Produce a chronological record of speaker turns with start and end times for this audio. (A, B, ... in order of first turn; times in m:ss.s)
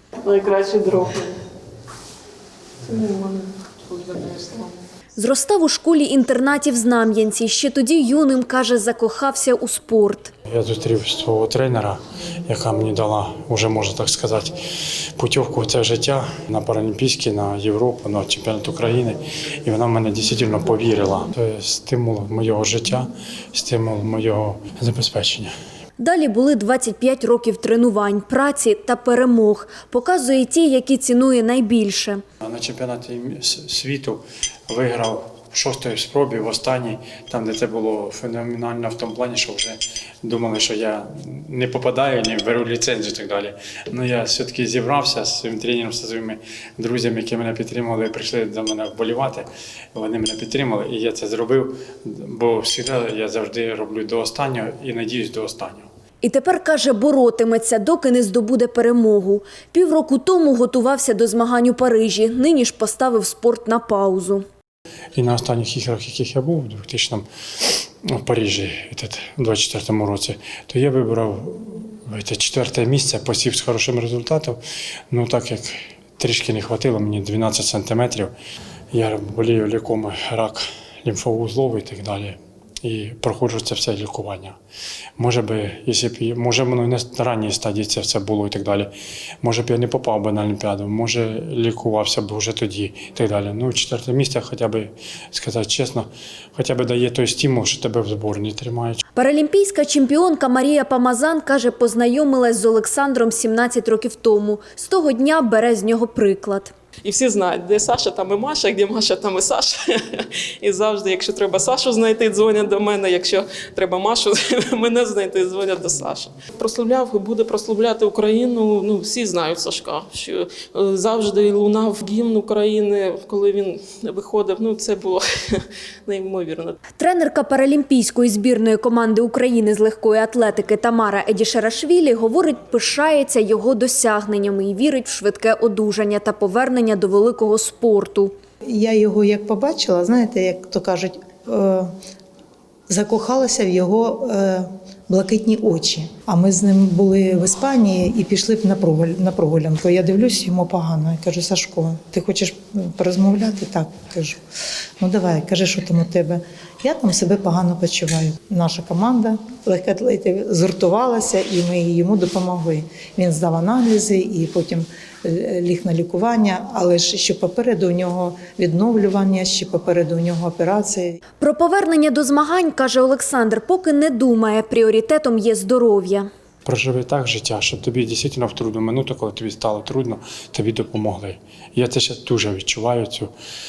0:00.2-0:01.4 A
0:02.8-0:04.8 A
0:05.2-0:10.3 B
0:10.5-0:14.6 C
0:15.2-0:25.5 C
0:26.0-0:32.2 B
0:32.4-0:55.9 C
0:56.2-1:04.4 B
1:05.1-1:14.6 C
1:15.1-1:18.3 C
1:18.9-1:24.6 C
1:25.2-1:28.9 C
1:29.4-1:39.0 C
1:39.2-1:46.7 B
1:47.0-2:06.8 A
2:07.0-2:18.3 B
2:18.7-2:21.9 D
2:22.9-2:34.4 D
2:35.0-2:51.2 D
2:51.4-2:56.3 B
2:56.6-3:03.3 C